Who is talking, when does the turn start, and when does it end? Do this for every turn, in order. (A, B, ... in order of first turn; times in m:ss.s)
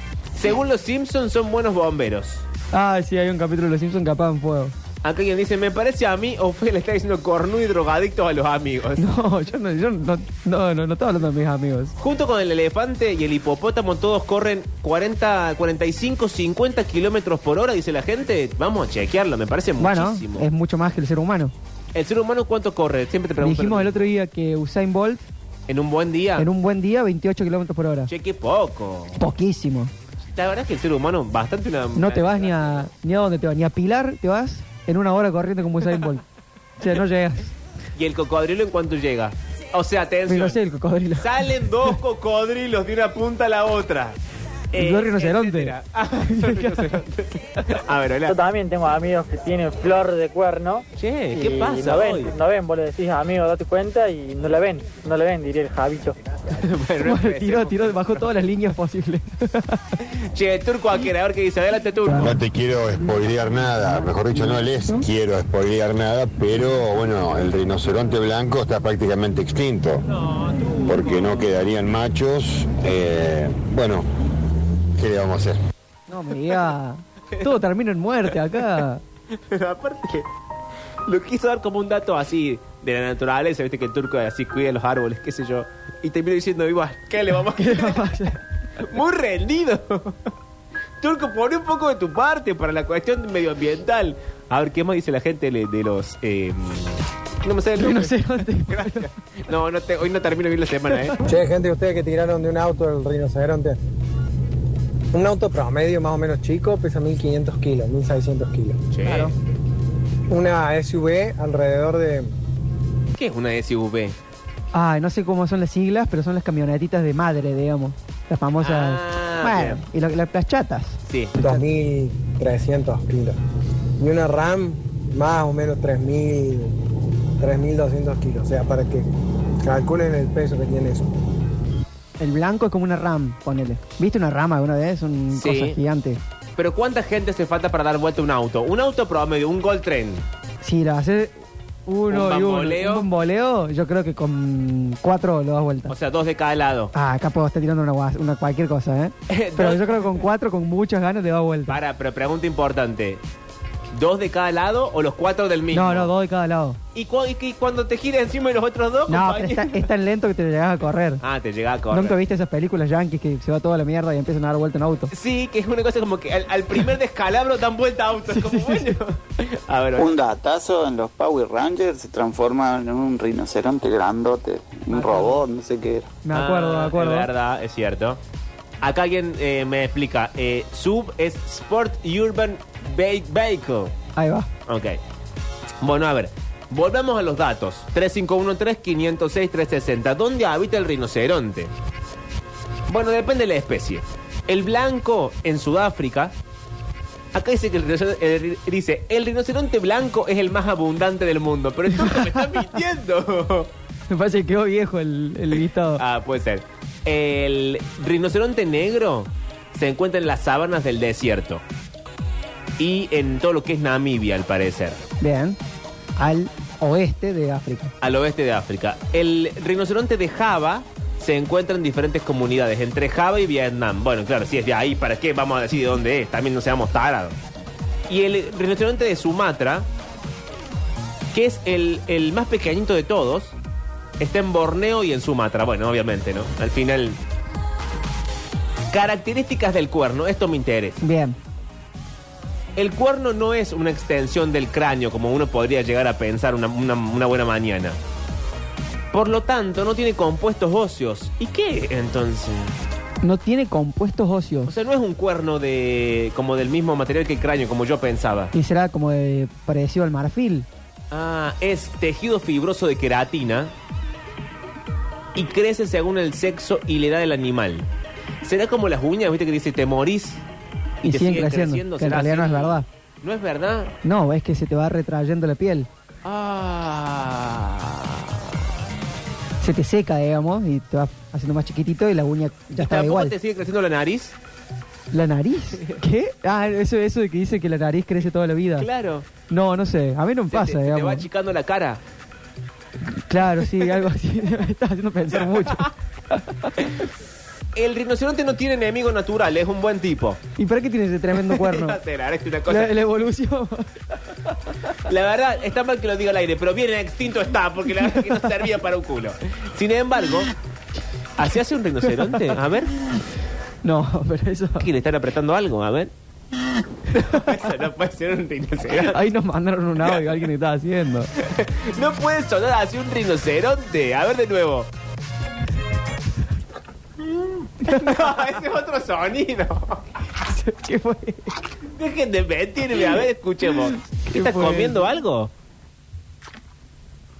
0:00.3-0:02.4 A
0:02.7-0:04.7 B
0:05.0-0:09.1 A
0:09.0-0:11.9 B
0:12.0-0:20.5 A
0:19.8-0:21.5 B
0:21.9-0:24.1 A
0:23.4-0:25.3 B
0:25.7-0:26.5 A
0:26.4-0:28.1 B
0:28.1-0:29.2 A
0:29.2-0:29.9 B
0:30.3-0:32.9 A
0:31.9-0:36.2 B
0:36.8-0:37.6 B
0:38.0-0:40.6 A
0:40.3-0:42.0 B
0:41.1-0:44.2 A
0:44.7-0:48.4 A
0:44.8-0:45.7 B
0:46.3-0:47.0 B
0:48.3-0:56.2 C
0:51.0-0:52.3 A
0:56.5-0:58.3 A
0:57.0-0:59.8 B
1:00.0-1:02.4 A
1:02.2-1:10.0 D
1:10.0-1:11.5 A
1:10.9-1:14.1 D
1:15.0-1:15.6 D
1:16.1-1:19.0 B
1:18.3-1:18.8 A
1:19.3-1:20.3 A
1:21.0-1:28.2 A
1:27.5-1:28.4 B
1:28.8-1:30.3 A
1:31.0-1:41.2 A
1:37.8-1:39.1 B
1:41.2-1:43.8 E
1:45.1-1:48.8 E
1:48.9-1:49.3 A
1:49.0-1:49.3 B
1:50.3-1:52.3 E
1:53.1-1:54.2 A
1:54.7-2:01.6 B
1:58.6-1:59.8 A
2:01.1-2:01.3 A
2:01.4-2:03.4 E
2:04.0-2:06.8 E
2:07.4-2:09.1 E
2:09.6-2:11.1 E
2:12.2-2:16.2 B
2:15.3-2:15.8 A
2:16.6-2:20.2 A
2:20.6-2:21.3 B
2:21.8-2:25.9 B
2:22.1-2:23.1 A
2:25.9-2:26.9 A
2:26.9-2:31.8 B
2:29.3-2:30.2 A
2:31.7-2:33.2 A
2:33.9-2:36.1 A
2:35.7-2:36.8 B
2:36.9-2:39.9 A
2:39.1-2:41.2 B
2:41.2-2:42.2 A
2:41.9-2:45.1 B
2:45.1-2:50.2 A
2:48.3-2:49.0 B
2:50.0-2:56.1 F
2:54.9-2:55.4 B
2:56.2-2:57.3 B
2:56.3-2:58.2 A
2:58.8-3:03.9 A
3:04.2-3:04.5 B
3:04.7-3:05.0 A
3:05.8-3:11.7 A
3:12.9-3:16.3 A
3:17.3-3:23.7 A
3:22.0-3:22.6 B
3:24.1-3:26.0 B
3:25.9-3:31.6 A
3:32.8-3:35.0 A
3:35.2-3:35.6 B
3:36.2-3:37.9 B
3:38.0-3:47.4 A
3:48.1-3:49.9 A
3:51.3-3:53.5 A
3:54.2-3:57.2 A
3:58.9-4:01.0 A
4:01.0-4:01.4 B
4:02.8-4:08.0 A
4:09.1-4:12.7 A
4:13.2-4:14.7 B
4:14.7-4:18.5 A
4:18.5-4:20.7 B
4:21.1-4:23.7 A
4:25.3-4:27.9 A
4:28.4-4:30.4 A
4:31.0-4:32.8 B
4:31.0-4:33.9 A
4:34.0-4:35.9 B
4:36.2-4:38.5 A
4:39.6-4:43.3 B
4:42.8-4:44.4 A
4:45.1-4:48.9 B
4:45.8-4:46.0 A
4:48.8-4:49.3 A
4:49.5-4:51.3 B
4:50.5-4:52.0 A
4:53.1-4:56.9 B
4:55.4-4:55.9 A
4:57.7-5:00.4 A
5:00.6-5:02.0 B
5:01.3-5:03.0 A
5:02.7-5:04.9 B
5:05.0-5:10.5 A
5:08.0-5:08.4 B
5:11.4-5:12.9 A
5:13.8-5:14.9 B
5:14.8-5:16.1 A
5:17.1-5:19.2 A
5:18.9-5:21.3 B
5:20.0-5:20.5 A
5:21.4-5:24.9 A
5:27.8-5:30.1 A
5:27.8-5:28.5 B
5:30.4-5:31.5 B
5:31.9-5:35.5 A
5:33.9-5:35.1 B